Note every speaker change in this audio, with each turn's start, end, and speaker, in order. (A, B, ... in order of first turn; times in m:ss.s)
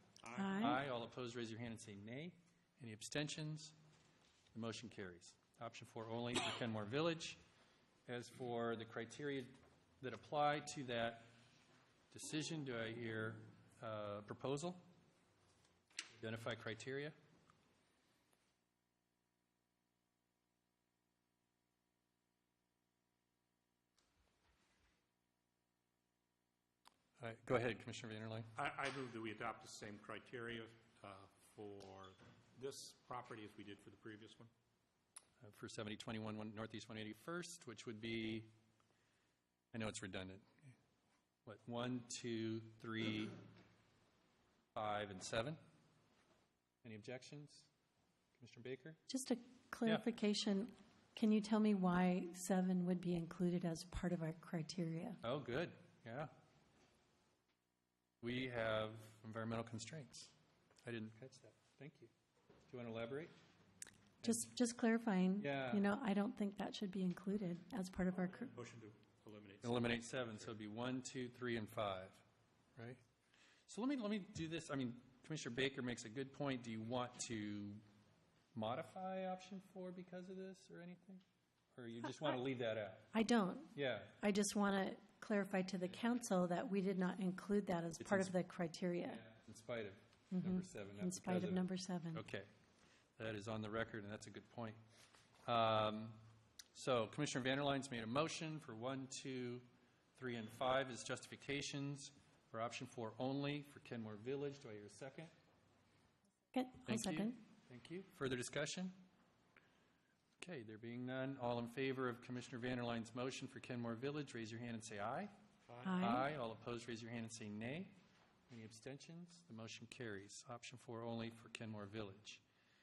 0:00.2-0:00.8 A
0:00.3-0:00.8 B
0:00.6-0:03.7 C
0:04.5-0:07.4 C
0:08.1-0:11.3 C
0:12.1-0:14.8 C
0:16.1-0:17.2 C
0:27.2-0:28.5 C
0:28.5-0:34.5 A
0:35.4-0:38.5 C
0:39.7-0:40.5 C
0:41.4-0:43.4 C
0:44.7-0:45.6 C
0:46.8-0:47.7 C
0:48.4-0:49.0 C
0:49.1-0:55.2 B
0:55.2-0:56.3 C
0:58.2-1:00.3 C
1:00.8-1:02.1 C
1:02.7-1:03.3 C
1:04.2-1:04.5 C
1:04.2-1:08.5 B
1:05.4-1:05.8 C
1:08.1-1:10.5 A
1:09.6-1:12.2 C
1:13.7-1:17.8 C
1:18.5-1:21.2 C
1:21.7-1:23.1 C
1:23.1-1:29.2 B
1:23.7-1:24.2 C
1:28.0-1:28.3 C
1:29.0-1:32.5 C
1:30.3-1:32.2 B
1:33.2-1:34.8 C
1:35.4-1:36.2 C
1:36.7-1:39.6 C
1:40.2-1:45.3 C
1:46.5-1:47.4 B
1:46.9-1:48.9 C
1:50.4-1:55.3 C
1:55.7-1:56.2 A
1:55.8-1:56.3 B
1:56.0-1:57.9 C
1:58.5-2:02.4 C